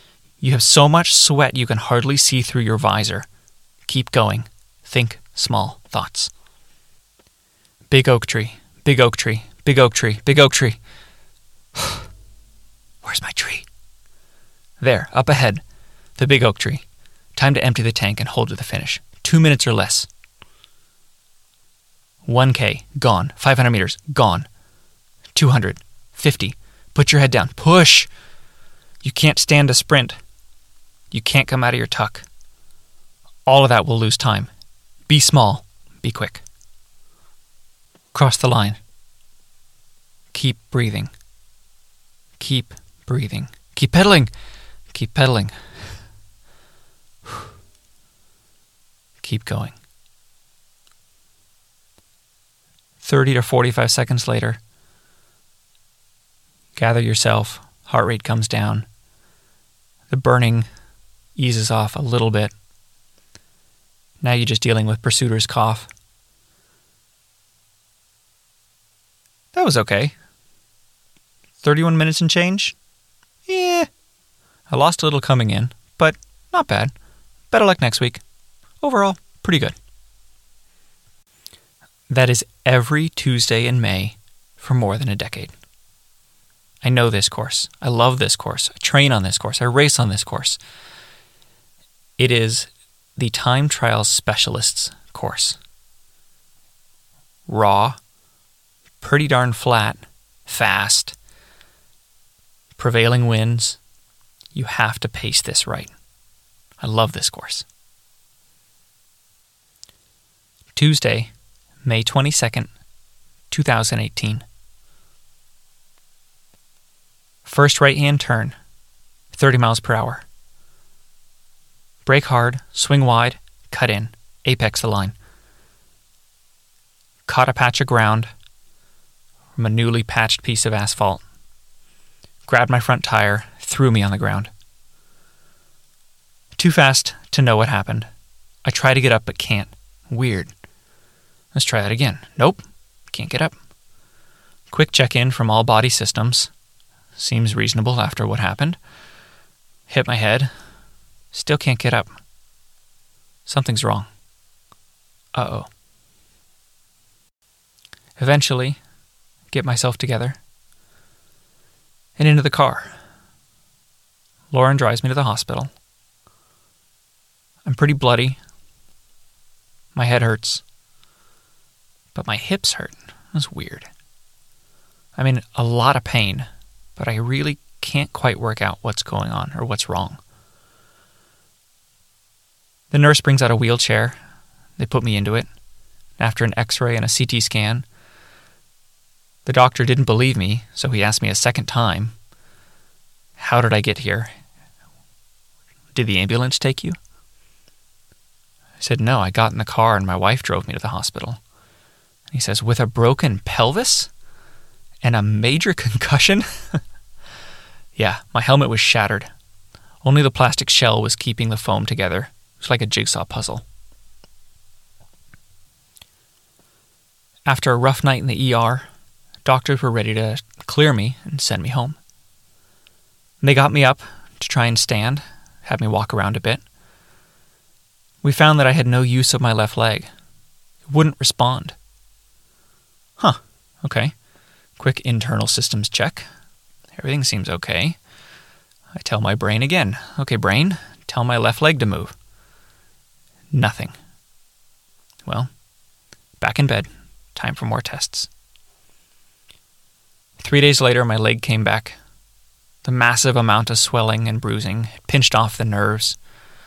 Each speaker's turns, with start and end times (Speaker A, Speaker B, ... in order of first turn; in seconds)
Speaker A: 0.4-3.3, 3.9-6.3, 7.9-10.8, 11.8-12.0, 13.0-13.7, 14.8-15.6, 16.2-16.9, 17.4-20.1, 22.3-24.5, 25.4-28.1, 29.0-30.2, 31.1-32.3, 33.5-34.5, 35.1-36.4, 38.1-38.8, 40.3-41.1, 42.4-44.3, 44.9-45.5, 49.2-49.8, 53.0-54.6, 56.8-58.9, 60.1-60.7, 61.4-62.5, 64.2-65.9, 69.5-70.1, 71.6-72.8, 73.5-73.9, 74.7-76.9, 77.5-78.2, 78.8-79.8, 82.1-85.5, 86.8-90.6, 92.2-95.6, 97.5-98.0, 99.0-101.2, 102.8-103.8, 104.5-105.9, 106.8-107.7, 110.8-111.3, 111.8-112.7, 113.5-114.5, 117.5-118.6, 119.3-120.2, 122.1-125.2, 127.3-128.3, 129.6-131.2, 132.5-134.5, 136.6-138.1, 138.7-140.5, 141.5-143.6, 144.7-146.5, 147.2-148.8, 149.9-150.5, 151.3-152.1, 153.5-154.1, 155.3-155.7, 158.2-158.8, 159.5-160.4, 162.2-162.9, 164.5-165.7, 167.7-168.4, 169.9-170.6, 172.2-173.9, 175.2-180.2, 182.9-184.2, 184.8-185.5, 186.2-187.9, 189.4-192.2, 193.4-194.3, 195.9-197.0, 198.8-201.4, 202.3-204.1, 205.0-206.8, 208.0-209.3, 210.0-213.6, 217.5-218.9, 219.4-222.0, 223.4-226.6, 228.2-230.1, 230.9-231.8, 233.2-234.1, 234.8-236.3, 237.0-238.0, 239.0-242.1, 243.5-244.0, 246.4-248.3, 250.4-252.0, 252.8-256.2